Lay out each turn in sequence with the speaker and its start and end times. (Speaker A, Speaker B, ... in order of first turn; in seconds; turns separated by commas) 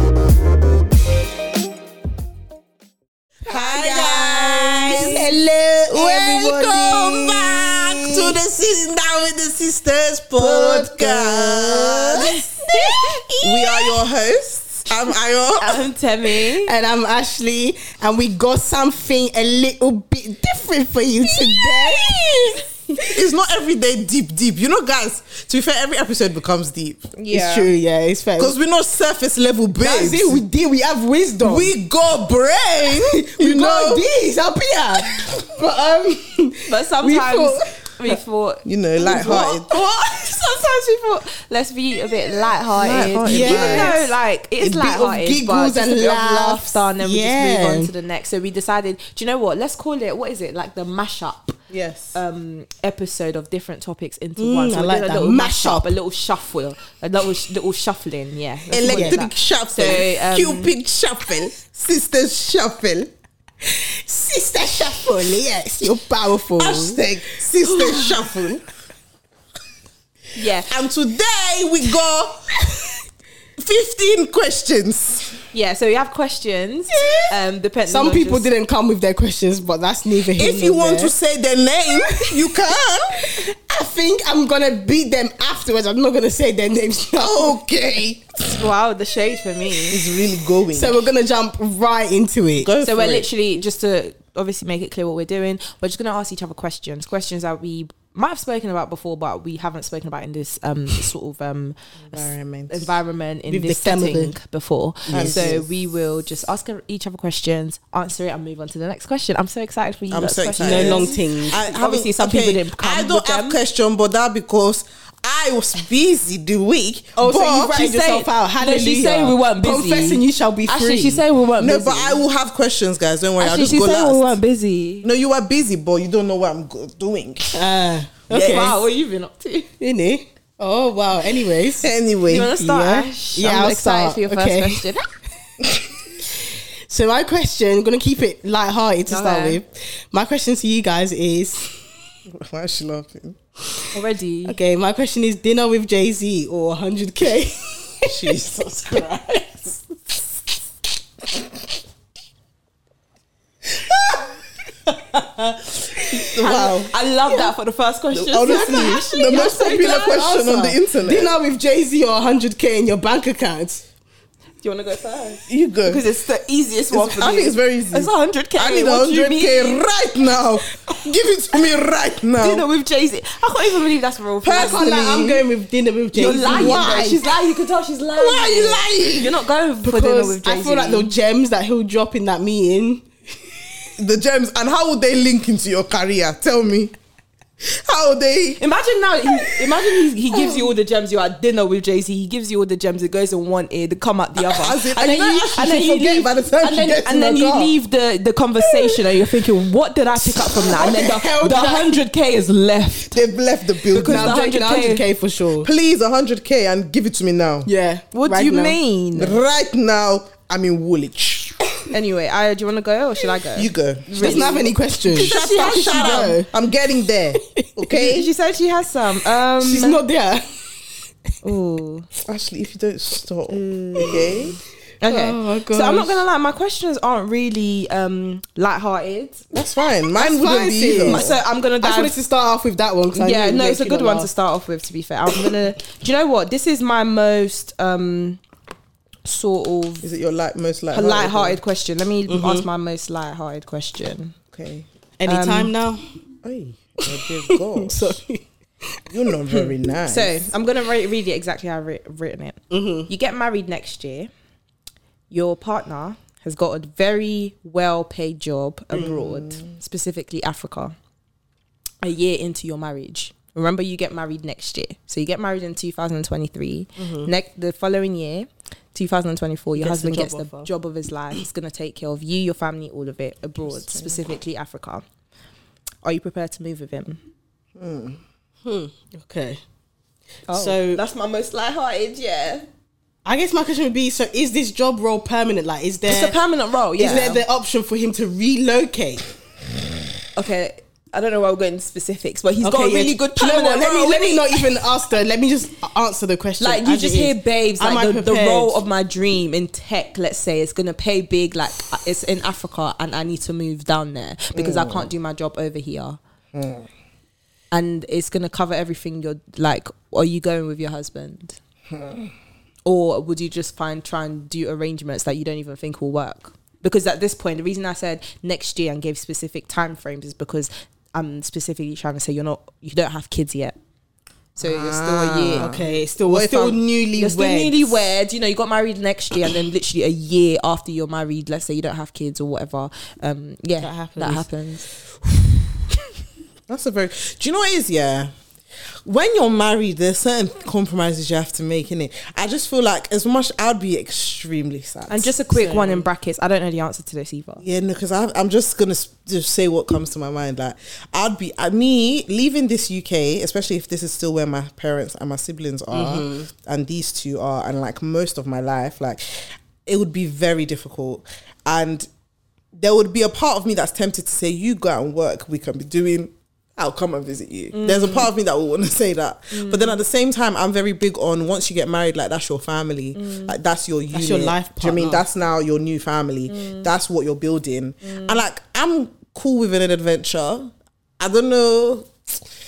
Speaker A: 3.5-5.3, Speaker B: 3.5-7.9, Speaker C: 4.8-5.9, Speaker A: 5.9-12.4, Speaker C: 10.4-13.5, Speaker B: 12.1-12.9, Speaker A: 13.4-15.8, Speaker B: 15.6-16.7, Speaker C: 16.6-23.1, Speaker A: 23.1-27.1, Speaker B: 27.1-27.7, Speaker C: 27.3-28.6, Speaker A: 28.4-30.4, Speaker C: 29.8-31.7, Speaker A: 31.4-34.1, Speaker C: 33.0-38.2, Speaker B: 36.6-51.6, Speaker A: 38.6-39.7, Speaker C: 39.2-39.8, Speaker A: 42.8-44.0, Speaker C: 43.0-47.9, Speaker A: 51.7-52.2, Speaker B: 52.1-60.7, Speaker C: 54.4-55.9, Speaker A: 58.7-63.1, Speaker C: 58.9-59.2, Speaker C: 63.6-67.0, Speaker A: 66.6-68.6, Speaker C: 67.9-68.2, Speaker B: 70.3-70.7, Speaker A: 70.7-72.5, Speaker A: 73.6-75.3, Speaker B: 75.5-78.5, Speaker C: 76.9-77.3, Speaker C: 77.9-81.1, Speaker A: 80.3-83.3, Speaker C: 82.0-82.4, Speaker C: 83.2-87.6, Speaker A: 87.2-88.6, Speaker B: 88.4-90.0, Speaker A: 89.9-91.0, Speaker C: 90.7-92.7, Speaker A: 92.6-93.3, Speaker B: 92.8-113.6, Speaker A: 102.1-102.9, Speaker C: 103.5-104.3, Speaker C: 105.1-105.5, Speaker A: 105.1-105.7, Speaker A: 110.1-117.8, Speaker C: 110.6-111.6, Speaker C: 117.2-121.2, Speaker B: 117.3-122.2, Speaker A: 121.6-124.3, Speaker B: 123.4-125.1, Speaker A: 125.0-127.6, Speaker C: 127.5-128.8, Speaker A: 128.3-128.7, Speaker B: 128.3-129.7, Speaker C: 129.8-134.8, Speaker A: 131.8-132.5, Speaker B: 132.3-135.1, Speaker C: 136.3-141.7, Speaker B: 139.1-139.6, Speaker A: 142.3-143.4, Speaker B: 143.9-144.6, Speaker C: 144.5-148.2, Speaker A: 148.1-149.8, Speaker A: 151.3-151.7, Speaker A: 153.7-154.2, Speaker A: 155.9-156.9, Speaker B: 156.4-160.3, Speaker A: 158.1-161.3, Speaker C: 158.4-163.8, Speaker B: 164.6-169.8, Speaker A: 165.5-166.0, Speaker A: 166.9-172.7, Speaker B: 172.4-174.9, Speaker A: 174.4-175.5, Speaker C: 174.6-176.9, Speaker B: 176.1-181.1, Speaker A: 176.2-177.3, Speaker A: 178.1-179.3, Speaker C: 179.8-183.1, Speaker A: 184.0-186.9, Speaker A: 187.6-188.6, Speaker B: 188.6-203.2, Speaker A: 194.5-197.7, Speaker C: 200.4-202.0, Speaker A: 203.1-204.4, Speaker B: 203.9-205.0, Speaker C: 203.9-205.7, Speaker A: 205.6-207.7, Speaker C: 207.7-208.8, Speaker B: 208.1-209.4, Speaker A: 209.1-211.6, Speaker B: 211.9-216.3, Speaker A: 213.5-214.4, Speaker C: 214.2-216.5, Speaker A: 215.1-218.3, Speaker B: 217.9-220.0, Speaker C: 219.6-220.7, Speaker B: 221.4-222.1, Speaker A: 222.2-224.6, Speaker B: 223.5-224.1, Speaker B: 225.0-229.4, Speaker C: 225.0-226.2, Speaker A: 229.5-231.4, Speaker C: 230.1-234.3, Speaker B: 230.9-232.2, Speaker B: 233.2-238.4, Speaker B: 239.2-240.0, Speaker A: 240.0-241.6, Speaker B: 240.9-244.3, Speaker C: 242.3-242.7, Speaker A: 244.5-244.9, Speaker C: 245.2-246.0, Speaker B: 245.2-245.7, Speaker A: 246.4-248.2, Speaker C: 247.1-248.4, Speaker A: 249.1-250.5, Speaker B: 250.1-254.3, Speaker C: 252.7-253.1, Speaker B: 255.3-260.9, Speaker A: 258.9-259.6, Speaker B: 262.0-275.0, Speaker C: 267.0-267.3, Speaker C: 269.8-270.7, Speaker B: 276.0-277.2, Speaker A: 277.8-278.2, Speaker C: 278.6-279.6, Speaker B: 280.5-282.6, Speaker C: 280.5-281.0, Speaker C: 283.2-286.4, Speaker B: 286.1-287.4, Speaker C: 287.0-289.3, Speaker B: 290.3-294.6, Speaker C: 292.6-298.8, Speaker B: 296.6-306.2, Speaker A: 304.5-305.1, Speaker A: 306.5-306.9, Speaker B: 307.7-311.6, Speaker A: 311.9-312.3, Speaker B: 312.8-323.8, Speaker B: 324.5-325.7, Speaker A: 324.6-327.0, Speaker C: 325.6-327.9, Speaker B: 327.1-334.9, Speaker C: 333.8-334.4, Speaker A: 336.7-338.3, Speaker A: 339.0-345.3, Speaker B: 345.1-347.6, Speaker C: 345.5-346.1, Speaker A: 347.6-362.1, Speaker C: 355.9-356.5, Speaker A: 362.7-382.4, Speaker B: 367.7-368.3, Speaker B: 369.5-369.9, Speaker B: 373.1-373.5, Speaker C: 374.1-375.2, Speaker B: 376.5-376.9, Speaker B: 378.0-378.4